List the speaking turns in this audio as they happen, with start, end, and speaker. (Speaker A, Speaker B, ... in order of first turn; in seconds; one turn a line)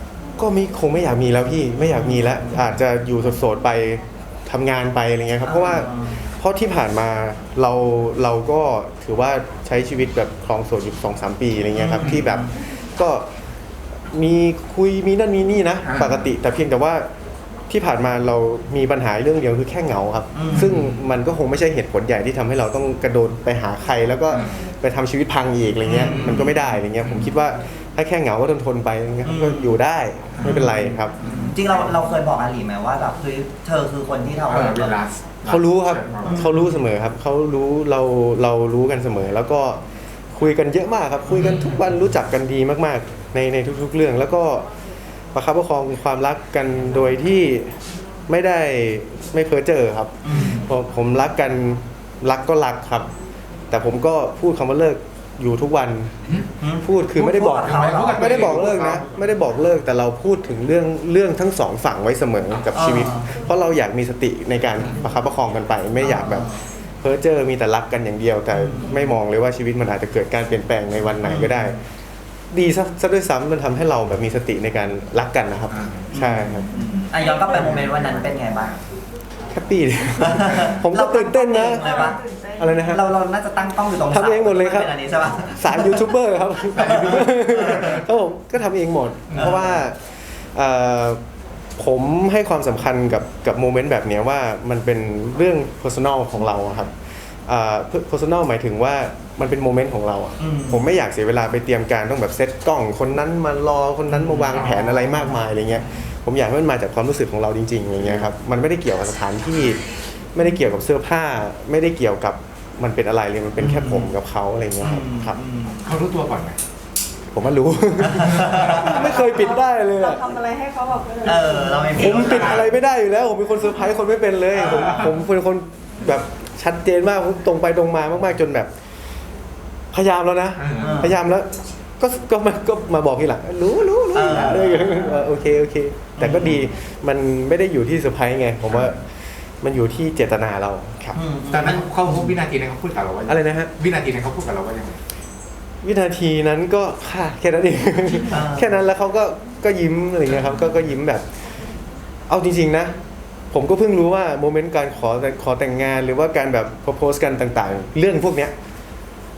Speaker A: 0.4-13.3
Speaker B: 5.4-6.2
Speaker B: 11.8-12.5
Speaker A: 14.1-17.1
Speaker C: 15.8-16.3
Speaker A: 17.7-31.1
Speaker B: 20.3-20.8
Speaker C: 20.6-20.9
Speaker B: 25.9-26.5
Speaker C: 25.9-26.5
Speaker B: 29.2-29.8
Speaker C: 30.4-30.7
Speaker B: 30.4-35.0
Speaker C: 31.2-31.6
Speaker C: 34.5-36.4
Speaker A: 35.5-39.8
Speaker B: 36.2-36.8
Speaker A: 40.3-44.7
Speaker C: 41.4-41.6
Speaker A: 45.3-53.1
Speaker B: 50.2-50.6
Speaker A: 53.7-56.3
Speaker B: 56.6-58.5
Speaker A: 56.8-71.8
Speaker C: 57.1-59.0
Speaker B: 62.7-63.3
Speaker B: 66.0-66.6
Speaker B: 68.5-69.1
Speaker B: 71.2-71.8
Speaker A: 72.5-76.7
Speaker C: 75.7-76.1
Speaker B: 76.1-78.8
Speaker D: 76.7-78.1
Speaker A: 79.5-83.0
Speaker B: 80.2-82.2
Speaker D: 81.7-83.0
Speaker B: 82.8-86.1
Speaker A: 84.0-84.9
Speaker A: 85.5-91.2
Speaker B: 86.7-88.0
Speaker C: 89.3-89.6
Speaker B: 89.3-89.8
Speaker A: 91.8-96.9
Speaker A: 97.5-109.8
Speaker B: 100.4-100.9
Speaker B: 104.1-105.3
Speaker C: 104.5-105.3
Speaker A: 110.3-115.4
Speaker B: 113.6-114.1
Speaker B: 114.8-115.9
Speaker C: 115.8-116.6
Speaker A: 117.3-120.2
Speaker B: 118.0-119.1
Speaker D: 118.8-122.5
Speaker B: 121.2-122.7
Speaker A: 122.0-128.7
Speaker C: 122.2-122.6
Speaker B: 124.5-125.1
Speaker C: 124.8-125.1
Speaker A: 129.9-141.2
Speaker C: 130.6-131.0
Speaker B: 130.8-131.2
Speaker B: 134.1-135.2
Speaker B: 136.2-136.6
Speaker B: 141.1-142.4
Speaker C: 141.5-145.0
Speaker A: 143.3-143.7
Speaker A: 145.8-151.4
Speaker B: 148.3-148.8
Speaker A: 152.3-152.9
Speaker A: 153.5-158.5